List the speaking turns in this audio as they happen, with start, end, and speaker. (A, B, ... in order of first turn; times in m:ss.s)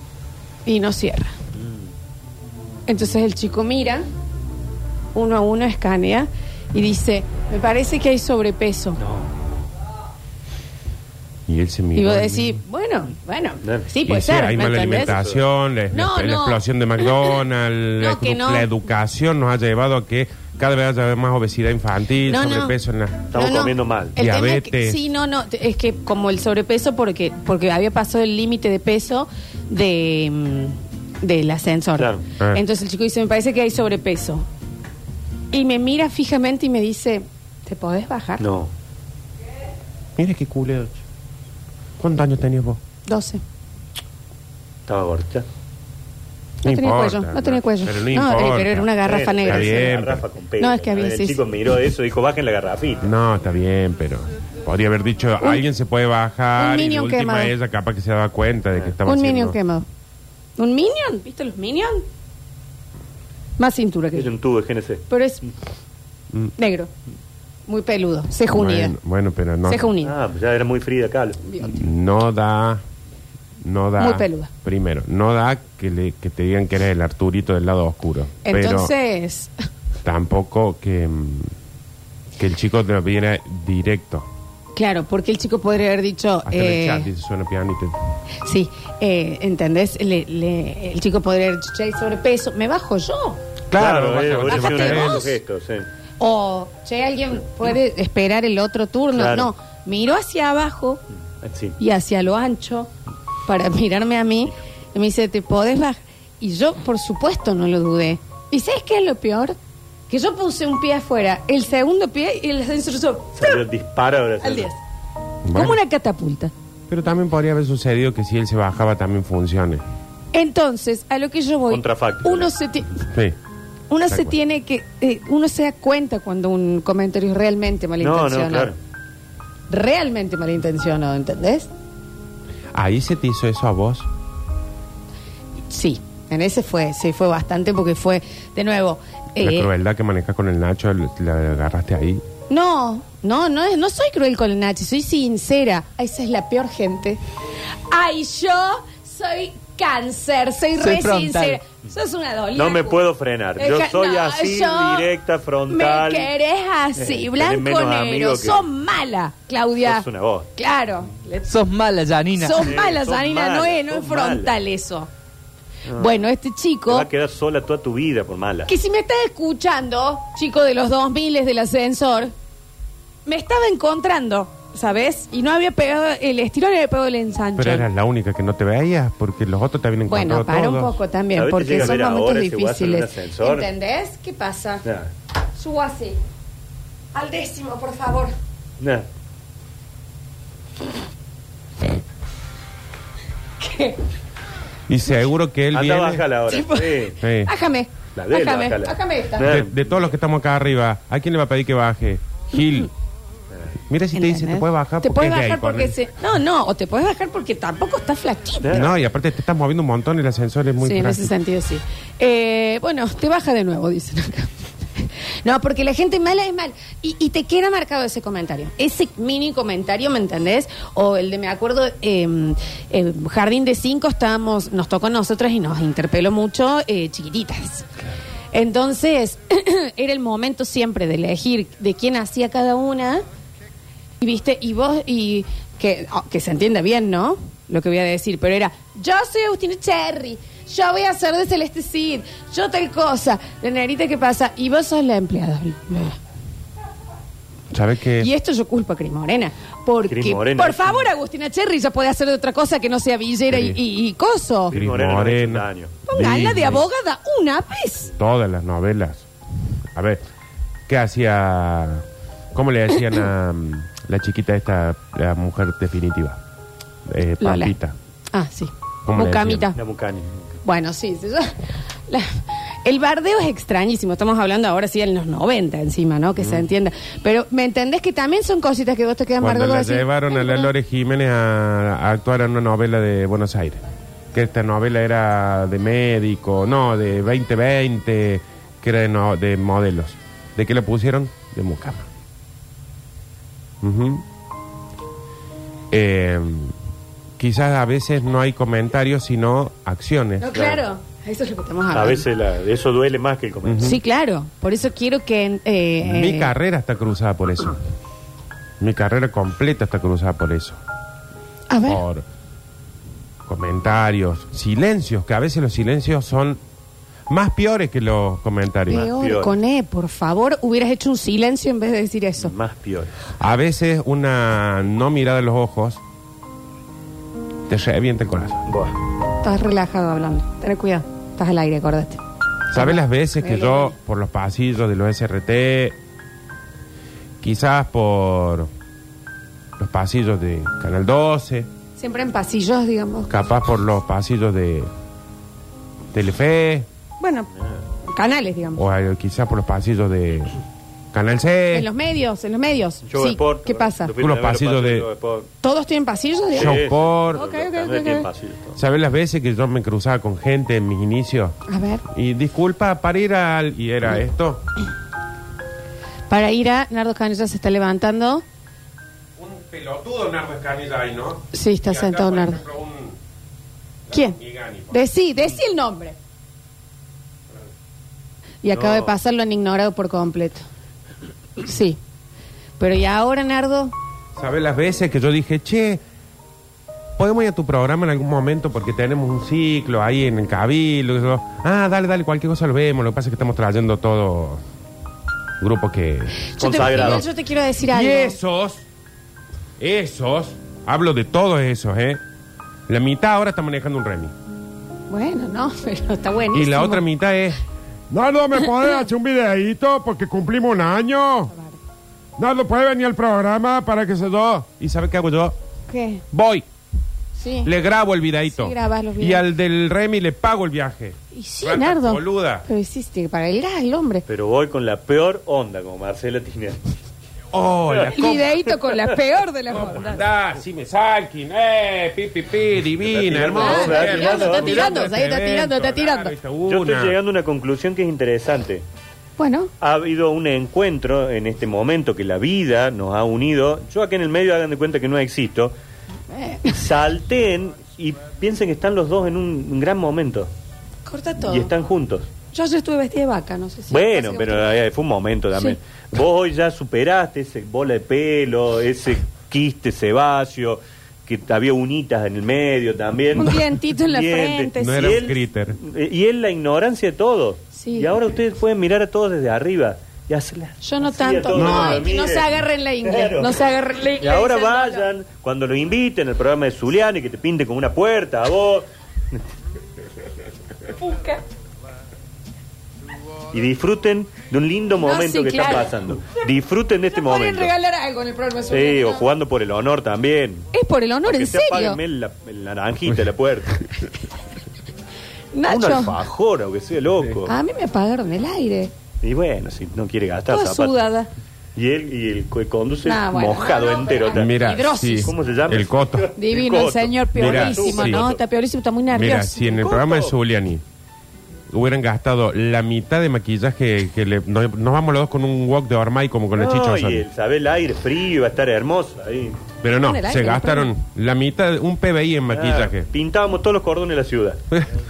0:00.6-0:01.3 A
0:02.9-0:04.0 A
0:05.1-0:09.0 A
0:09.0-0:09.3 B
0:11.5-0:12.6 C
0:11.9-0:15.2 A
0:14.0-0:23.3 C
0:14.9-0:15.4 B
0:15.9-0:17.4 A
0:18.0-0:18.7 A
0:22.3-0:22.8 A
0:23.3-0:24.2 B
0:23.3-0:34.4 A
0:24.2-0:25.0 C
0:32.0-0:32.2 B
0:35.5-0:38.4 A
0:38.4-0:38.7 B
0:40.2-0:41.0 C
0:42.0-0:42.8 C
0:43.1-0:43.4 A
0:44.9-0:45.4 B
0:46.6-0:48.9 C
0:46.6-0:50.0 A
0:49.0-0:53.1 B
0:49.4-0:50.2 C
0:50.6-0:51.4 A
0:53.0-0:59.6 C
0:56.6-0:57.5 A
0:59.0-0:59.9 A
1:00.6-1:02.0 A
1:03.6-1:04.3 A
1:04.1-1:05.0 B
1:05.1-1:05.4 A
1:06.6-1:06.9 A
1:07.7-1:08.9 A
1:08.5-1:09.9 C
1:09.6-1:10.1 A
1:10.0-1:11.4 B
1:11.4-1:11.8 A
1:11.6-1:12.8 C
1:13.6-1:18.9 C
1:14.0-1:14.5 A
1:18.4-1:19.5 A
1:20.0-1:21.5 C
1:22.4-1:24.3 C
1:24.7-1:27.1 A
1:26.4-1:28.0 C
1:28.4-1:33.4 A
1:33.7-1:35.2 C
1:33.8-1:35.9 B
1:34.5-1:35.4 A
1:36.2-1:41.0 A
1:39.1-1:39.5 B
1:41.4-1:41.8 B
1:41.8-1:42.9 A
1:43.4-1:49.6 A
1:50.1-1:53.6 A
1:53.4-1:54.7 B
1:54.4-1:54.8 A
1:55.4-1:55.8 C
1:55.5-1:56.5 A
1:56.9-1:59.8 C
2:00.3-2:02.9 A
2:01.7-2:02.5 B
2:03.9-2:08.7 A
2:04.1-2:04.4 C
2:08.0-2:08.8 B
2:09.7-2:11.7 A
2:12.7-2:14.1 C
2:15.7-2:19.7 A
2:19.4-2:22.2 C
2:22.5-2:27.2 A
2:27.9-2:33.0 A
2:30.8-2:31.6 D
2:32.5-2:36.3 B
2:33.6-2:35.1 A
2:35.7-2:40.0 A
2:37.0-2:38.7 B
2:39.8-2:40.5 B
2:40.6-2:41.6 A
2:41.4-2:42.7 D
2:42.3-2:45.1 A
2:42.6-2:44.5 B
2:45.8-2:46.1 B
2:46.0-2:47.1 A
2:46.9-2:48.7 B
2:48.7-2:52.3 A
2:53.2-2:57.9 A
2:57.6-3:01.0 C
3:00.1-3:04.8 A
3:01.3-3:03.7 B
3:04.8-3:05.1 B
3:05.6-3:06.2 A
3:07.1-3:08.4 A
3:08.8-3:09.0 B
3:13.6-3:14.0 A
3:14.9-3:16.2 C
3:15.7-3:17.2 B
3:16.5-3:19.5 A
3:17.2-3:17.5 C
3:18.2-3:20.0 B
3:19.4-3:22.9 C
3:23.9-3:26.0 C
3:24.1-3:28.9 A
3:28.6-3:28.9 B
3:28.7-3:31.3 C
3:30.8-3:47.9 A
3:48.5-3:53.2 A
3:54.2-4:06.2 A
4:07.7-4:08.3 C
4:08.2-4:14.8 A
4:10.1-4:11.1 B
4:13.5-4:13.8 C
4:14.7-4:16.0 B
4:14.7-4:16.8 C
4:16.1-4:18.1 A
4:18.1-4:19.2 C
4:19.9-4:20.2 C
4:20.9-4:26.4 C
4:27.0-4:27.9 C
4:27.4-4:27.7 A
4:28.3-4:29.8 A
4:29.0-4:29.7 C
4:29.8-4:30.6 B
4:30.6-4:40.7 A
4:39.4-4:52.0 C
4:53.8-4:54.2 C
4:55.9-4:56.7 C
4:57.4-5:00.7 C
5:00.4-5:02.2 A
5:00.5-5:00.8 B
5:01.9-5:04.0 B
5:03.6-5:04.0 C
5:03.8-5:06.5 A
5:06.0-5:07.8 C
5:08.8-5:10.8 C
5:11.7-5:12.0 A
5:11.9-5:12.2 C
5:13.4-5:16.6 C
5:17.3-5:19.1 C
5:18.9-5:22.5 A
5:18.9-5:19.6 B
5:22.4-5:23.1 B
5:23.4-5:26.0 C
5:27.7-5:28.6 C
5:28.7-5:28.9 B
5:29.4-5:32.2 A
5:32.7-5:36.0 C
5:32.7-5:33.9 A
5:37.4-5:38.7 C
5:39.8-5:41.7 C
5:42.0-5:43.3 A
5:43.3-5:44.9 C
5:46.1-5:46.9 C
5:47.2-5:47.5 A
5:48.0-5:48.8 A
5:48.8-5:50.6 C
5:51.1-5:51.9 C
5:51.7-5:54.1 A
5:53.1-5:55.5 B
5:54.2-5:55.1 C
5:55.6-5:58.3 A
5:56.5-5:57.4 C
5:56.5-5:58.8 B
5:58.8-6:01.5 C
6:01.7-6:02.0 A
6:02.1-6:04.6 C
6:06.3-6:08.4 A
6:09.4-6:13.2 C
6:11.5-6:12.6 A
6:14.1-6:15.0 C
6:14.1-6:14.4 A
6:14.9-6:16.2 A
6:18.6-6:20.6 A
6:18.7-6:19.1 B
6:21.6-6:22.0 A
6:22.8-6:23.9 A
6:24.4-6:26.0 C
6:27.2-6:34.6 C
6:35.6-6:37.2 C
6:36.5-6:38.4 A
6:36.6-6:37.2 B
6:37.8-6:38.8 C
6:39.8-6:42.2 C
6:42.9-6:44.3 C
6:45.1-6:47.0 A
6:46.5-6:51.5 C
6:51.5-6:51.8 A
6:52.4-6:55.6 C
6:55.9-6:56.2 A
6:56.3-6:56.6 C
6:57.4-6:57.7 A
6:57.6-7:02.6 C
6:58.5-6:59.4 A
7:01.3-7:04.2 A
7:04.3-7:06.8 B
7:07.5-7:08.6 C
7:07.9-7:08.2 B
7:08.1-7:10.2 A
7:09.7-7:17.2 C
7:13.0-7:15.1 B
7:13.5-7:16.3 A
7:16.7-7:18.8 B
7:19.4-7:19.7 A
7:19.8-7:25.7 B
7:26.3-7:26.8 A
7:26.7-7:30.5 B
7:31.0-7:31.7 A
7:31.4-7:32.3 B
7:32.5-7:34.7 A
7:33.9-7:53.6 B
7:43.4-7:45.4 A
7:44.8-7:45.8 C
7:47.7-7:48.1 A
7:50.8-7:55.1 A
7:51.5-7:52.1 C
7:54.2-7:59.4 B
8:01.0-8:01.4 A
8:03.5-8:07.7 B
8:05.0-8:06.1 A
8:07.1-8:09.2 A
8:08.7-8:10.7 B
8:10.7-8:12.0 A
8:11.2-8:13.8 B
8:15.5-8:16.2 A
8:15.7-8:17.5 B
8:17.4-8:18.9 A
8:19.2-8:20.9 B
8:20.5-8:21.3 A
8:21.7-8:28.4 B
8:23.0-8:25.3 A
8:24.3-8:26.3 C
8:26.4-8:29.8 A
8:27.3-8:28.2 C
8:29.1-8:30.8 C
8:29.7-8:30.3 B
8:31.7-8:37.2 C
8:36.5-8:39.6 B
8:39.8-8:43.1 C
8:40.0-8:40.9 A
8:42.5-8:44.6 B